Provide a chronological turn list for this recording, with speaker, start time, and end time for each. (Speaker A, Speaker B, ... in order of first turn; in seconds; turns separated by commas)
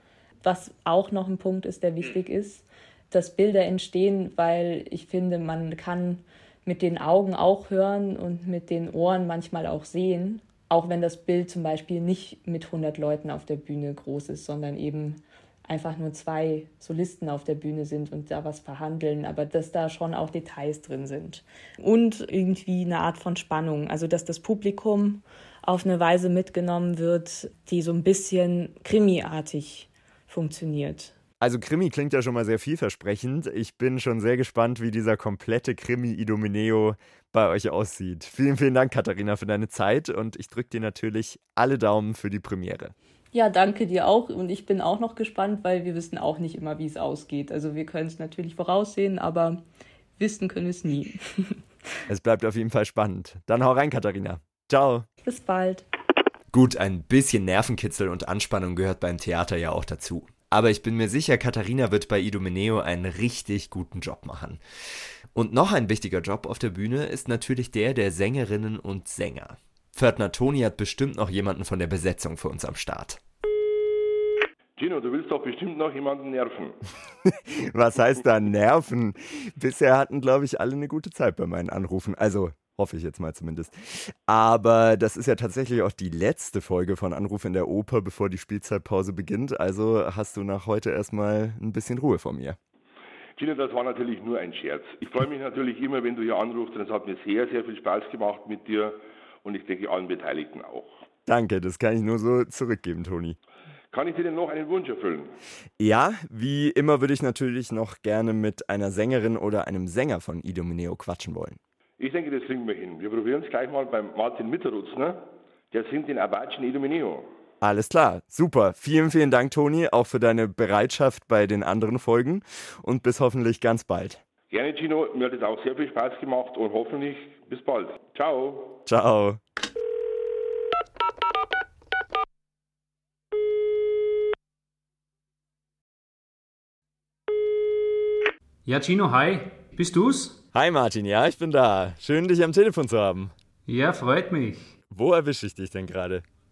Speaker A: 0.4-31.1, Speaker B: 31.4-42.9, Speaker A: 43.3-49.6, Speaker A: 50.2-51.6, Speaker B: 52.1-55.1, Speaker A: 55.2-55.9, Speaker B: 56.5-64.6, Speaker B: 65.3-73.2, Speaker C: 74.8-76.8, Speaker B: 77.2-92.6, Speaker C: 93.4-101.0, Speaker B: 101.3-103.4, Speaker C: 103.9-105.3, Speaker B: 105.8-111.6, Speaker C: 112.0-117.2, Speaker B: 117.6-124.2, Speaker C: 124.5-128.8, Speaker B: 128.9-129.4, Speaker D: 138.7-140.4, Speaker B: 140.5-143.3, Speaker D: 143.7-144.8, Speaker B: 144.9-146.2